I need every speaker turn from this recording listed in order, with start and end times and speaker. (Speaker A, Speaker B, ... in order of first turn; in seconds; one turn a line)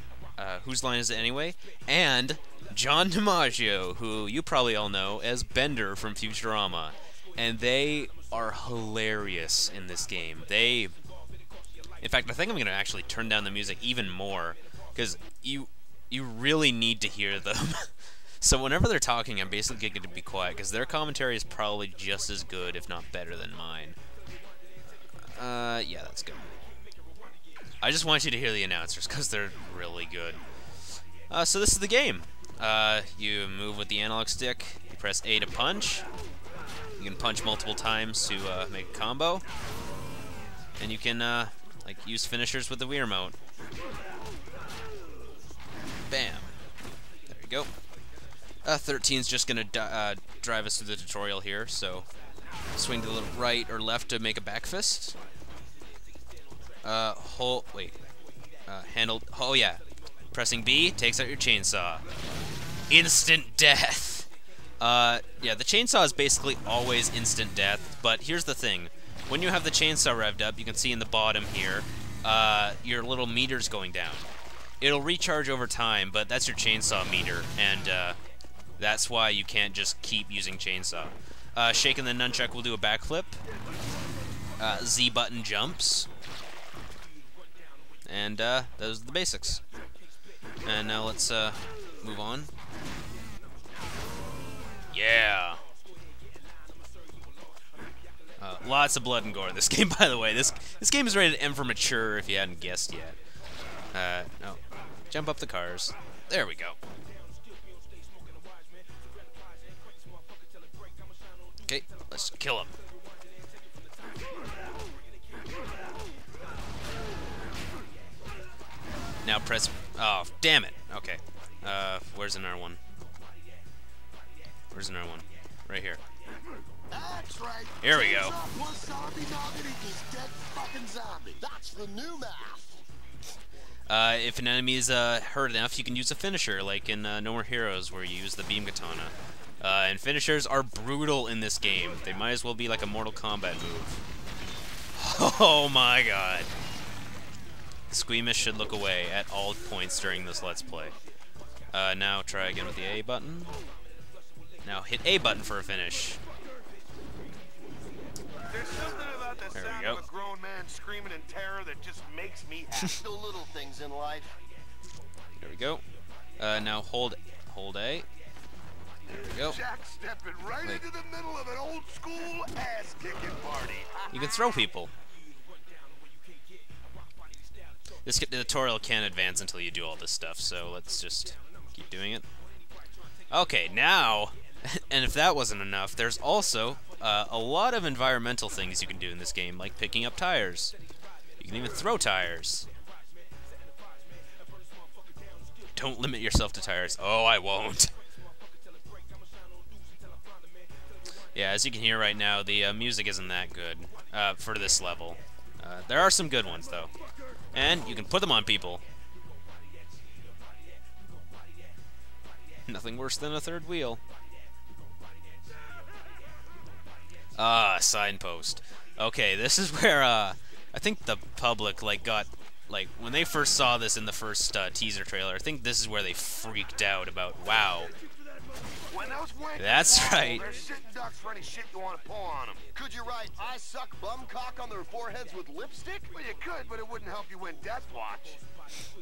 Speaker A: 0.4-10.9
Speaker A: 12.0-17.9
Speaker A: 18.4-24.0
Speaker A: 25.0-26.5
Speaker A: 27.8-30.4
Speaker A: 31.3-36.0
Speaker A: 37.0-39.4
Speaker A: 40.8-43.4
Speaker A: 46.1-46.5
Speaker A: 47.3-47.7
Speaker A: 48.6-52.1
Speaker A: 52.7-55.2
Speaker A: 56.8-58.0
Speaker A: 58.7-59.8
Speaker A: 60.3-62.0
Speaker A: 62.9-64.3
Speaker A: 64.8-74.3
Speaker A: 74.8-78.2
Speaker A: 78.8-83.4
Speaker A: 84.6-86.1
Speaker A: 88.1-89.6
Speaker A: 90.6-92.5
Speaker A: 94.9-95.6
Speaker A: 98.4-103.2
Speaker A: 103.9-106.8
Speaker A: 111.7-112.7
Speaker A: 119.2-122.8
Speaker A: 124.7-126.0
Speaker B: 126.9-131.4
Speaker A: 127.8-128.3
Speaker C: 131.4-132.8
Speaker A: 133.9-144.0
Speaker A: 144.9-146.5
Speaker A: 147.9-150.9
Speaker A: 151.7-153.5
Speaker A: 154.6-156.2
Speaker B: 158.5-163.0
Speaker A: 159.5-160.0
Speaker C: 162.7-164.4
Speaker A: 165.3-165.8
Speaker A: 166.4-168.1
Speaker A: 169.1-169.6
Speaker B: 169.2-174.6
Speaker A: 174.1-174.9
Speaker A: 178.0-182.2
Speaker A: 183.3-190.7
Speaker A: 191.4-192.7
Speaker A: 195.8-197.9
Speaker A: 201.3-206.9
Speaker A: 207.5-208.8
Speaker A: 212.7-214.0
Speaker A: 217.3-227.9
Speaker B: 228.9-233.0
Speaker A: 229.6-230.4
Speaker C: 232.8-236.1
Speaker B: 236.1-238.4